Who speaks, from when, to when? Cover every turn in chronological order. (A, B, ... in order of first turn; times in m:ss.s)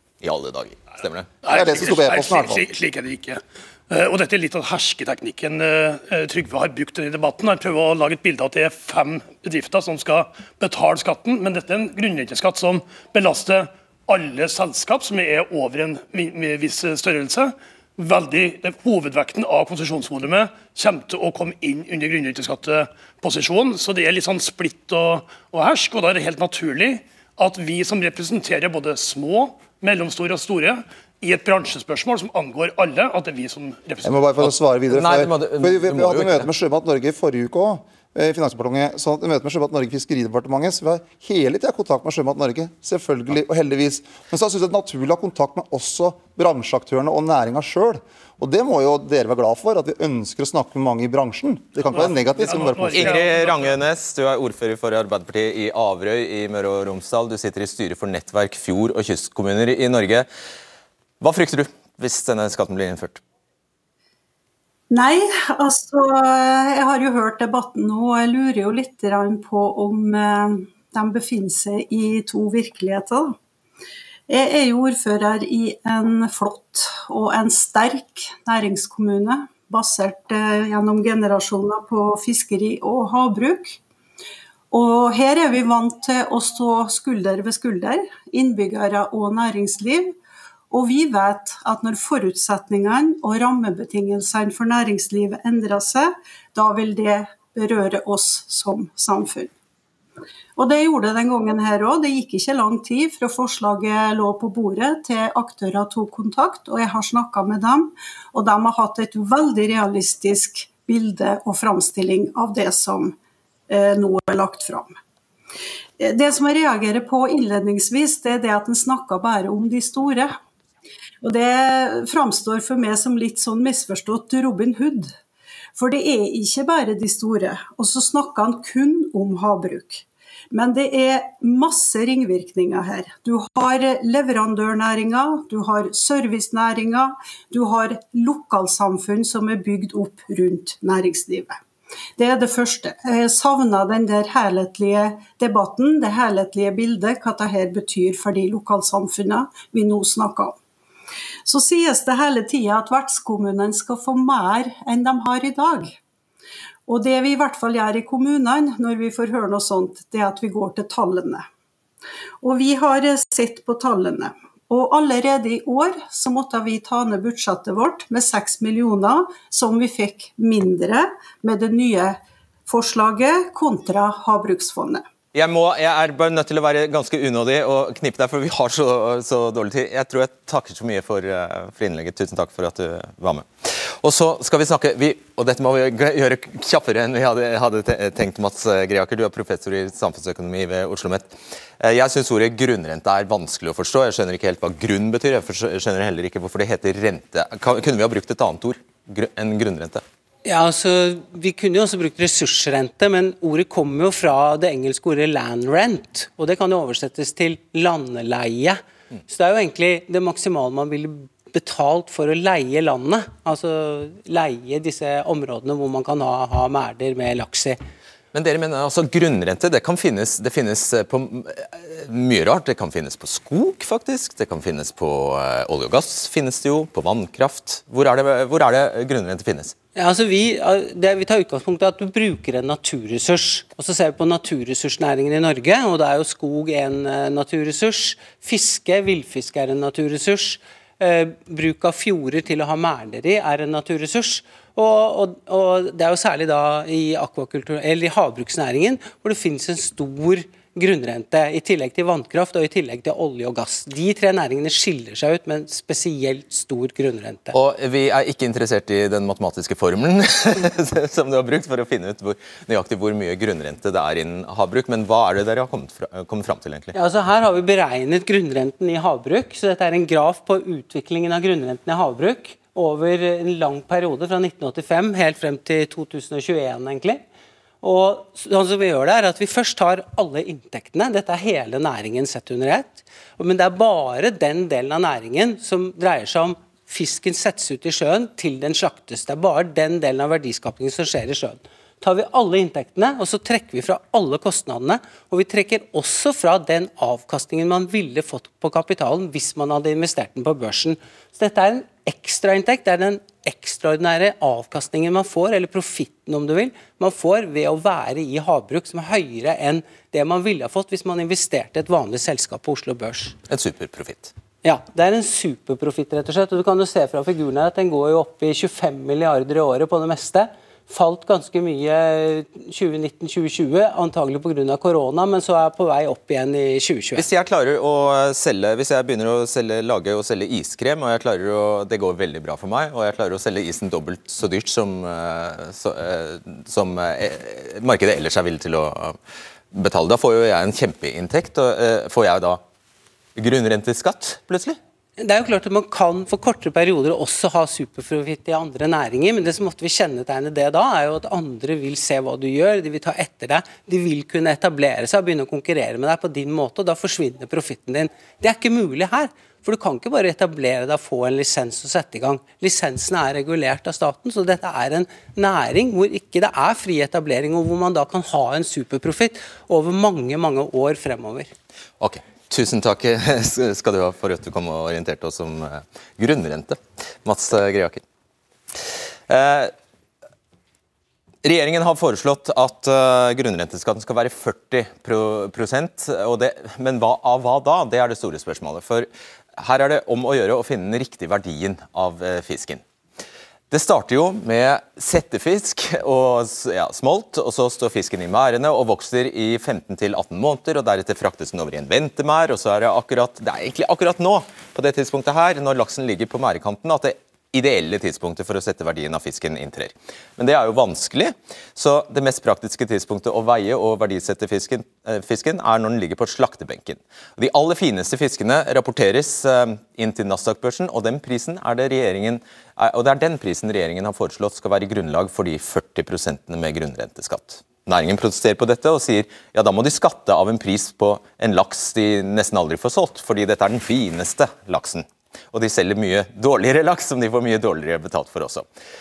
0:00.2-0:01.3 A
0:01.4-0:34.3 B
0:01.5-0:02.7 C
0:34.0-0:53.2 C
0:34.9-0:36.5 A
0:51.8-0:53.8 B
0:52.8-1:00.3 A
1:01.2-1:03.2 A
1:04.9-1:13.4 D
1:14.3-1:23.8 D
1:24.7-1:30.1 D
1:30.7-1:39.5 D
1:40.6-1:53.2 D
1:53.7-1:54.9 D
1:56.0-2:00.4 D
2:01.2-2:05.1 D
2:05.8-2:21.6 D
2:22.2-2:30.6 D
2:31.5-2:36.0 D
2:36.9-2:41.4 D
2:42.4-2:55.0 D
2:55.3-3:20.0 A
3:20.4-3:37.8 E
3:38.3-3:49.7 A
3:49.9-4:17.5 E
4:17.5-4:26.9 A
4:26.9-4:37.2 E
4:37.8-5:13.4 E
5:13.5-5:14.3 A
5:14.6-5:27.3 E
5:27.2-5:39.2 A
5:39.7-5:42.6 A
5:43.4-5:44.8 A
5:45.2-6:11.5 E
6:12.0-6:18.0 A
6:19.3-6:19.7 A
6:21.4-6:32.8 A
6:33.7-7:18.6 A